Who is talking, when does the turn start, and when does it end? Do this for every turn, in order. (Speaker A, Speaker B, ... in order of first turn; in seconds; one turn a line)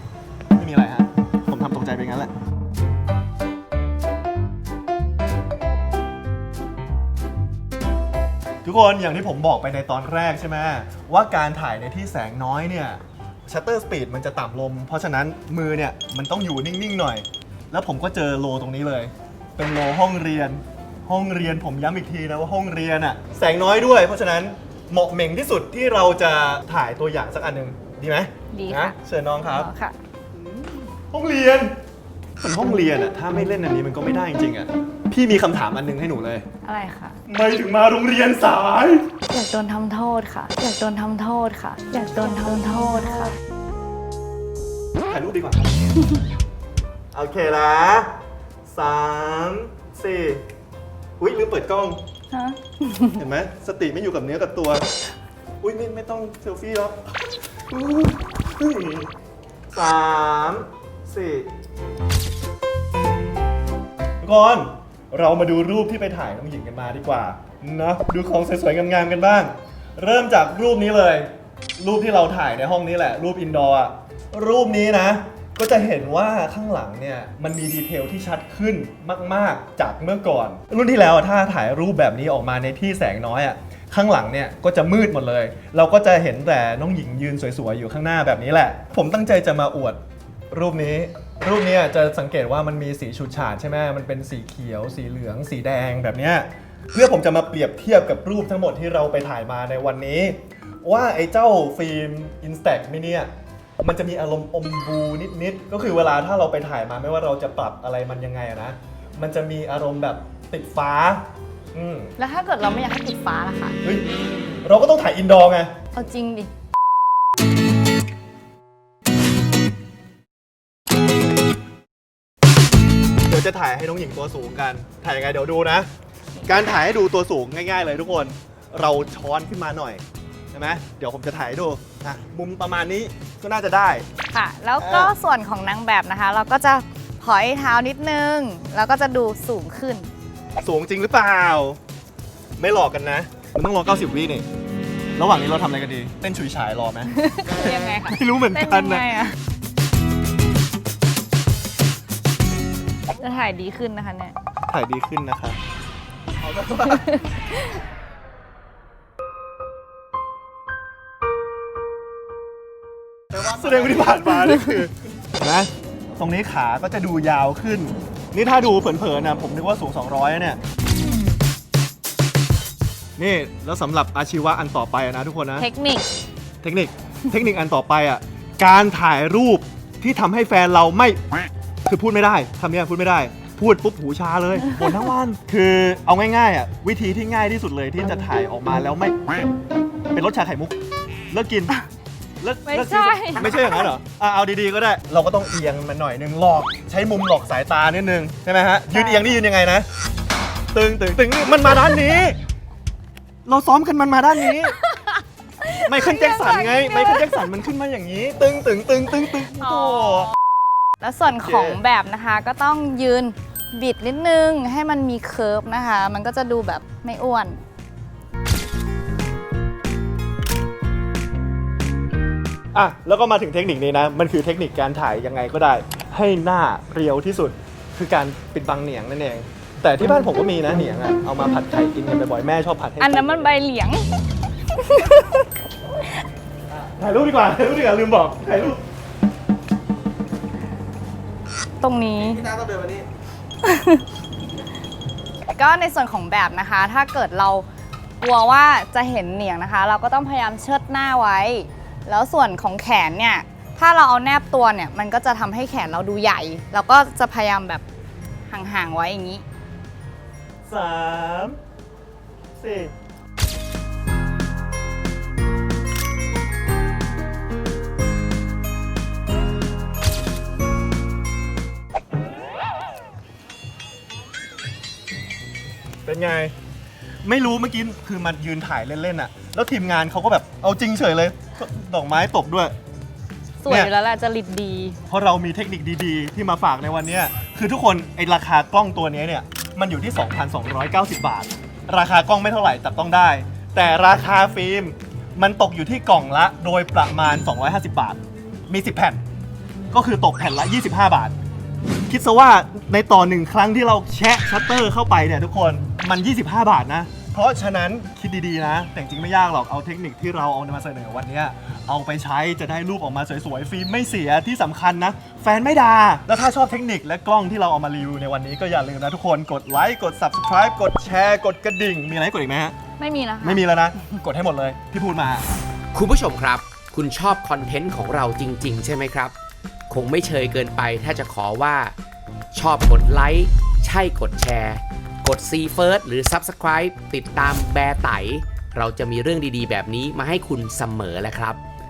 Speaker A: 0.6-2.3
Speaker A: 8.6-29.7
Speaker B: 28.5-29.9
Speaker A: 30.3-31.7
Speaker A: 32.4-36.5
Speaker B: 36.6-37.2
Speaker A: 37.3-39.1
Speaker B: 39.3-43.4
Speaker A: 45.1-45.8
Speaker A: 47.1-48.1
Speaker A: 48.7-50.4
Speaker A: 51.2-52.0
Speaker B: 52.3-53.2
Speaker A: 53.1-54.9
Speaker A: 55.6-59.1
Speaker A: 59.7-61.5
Speaker A: 64.2-90.0
Speaker A: 90.5-103.3
Speaker A: 103.8-111.2
Speaker A: 111.7-112.1
Speaker B: 112.2-113.8
Speaker A: 113.8-114.1
Speaker A: 114.6-115.8
Speaker B: 115.9-116.5
Speaker A: 123.3-125.9
Speaker A: 126.5-130.0
Speaker A: 130.5-134.1
Speaker B: 134.3-140.1
Speaker A: 134.8-135.1
Speaker A: 140.6-141.8
Speaker A: 142.6-144.5
Speaker A: 145.2-149.1
Speaker B: 147.1-149.4
Speaker B: 153.2-154.3
Speaker A: 154.7-155.6
Speaker A: 156.4-157.0
Speaker B: 156.8-157.8
Speaker A: 163.3-170.6
Speaker A: 173.2-175.7
Speaker B: 175.6-176.0
Speaker A: 176.6-181.2
Speaker A: 181.9-189.5
Speaker A: 190.1-190.8
Speaker A: 191.3-191.8
Speaker A: 192.4-199.9
Speaker B: 192.7-193.9
Speaker B: 198.9-199.4
Speaker A: 200.7-202.4
Speaker A: 203.5-204.8
Speaker B: 204.8-207.3
Speaker A: 205.8-210.3
Speaker B: 209.5-210.3
Speaker B: 211.0-217.6
Speaker A: 211.4-211.8
Speaker A: 222.7-233.5
Speaker B: 233.0-234.1
Speaker B: 234.7-235.4
Speaker A: 236.9-238.8
Speaker B: 241.8-243.0
Speaker B: 243.6-244.0
Speaker B: 245.6-247.7
Speaker B: 248.2-257.8
Speaker B: 258.5-259.4
Speaker A: 260.7-261.6
Speaker A: 262.6-262.9
Speaker A: 276.1-276.5
Speaker A: 277.2-282.8
Speaker B: 283.6-285.0
Speaker A: 283.7-283.9
Speaker A: 285.1-299.2
Speaker A: 299.9-301.3
Speaker A: 302.1-322.8
Speaker B: 323.0-323.6
Speaker A: 323.4-325.4
Speaker C: 325.9-329.4
Speaker C: 329.9-331.9
Speaker C: 332.5-341.6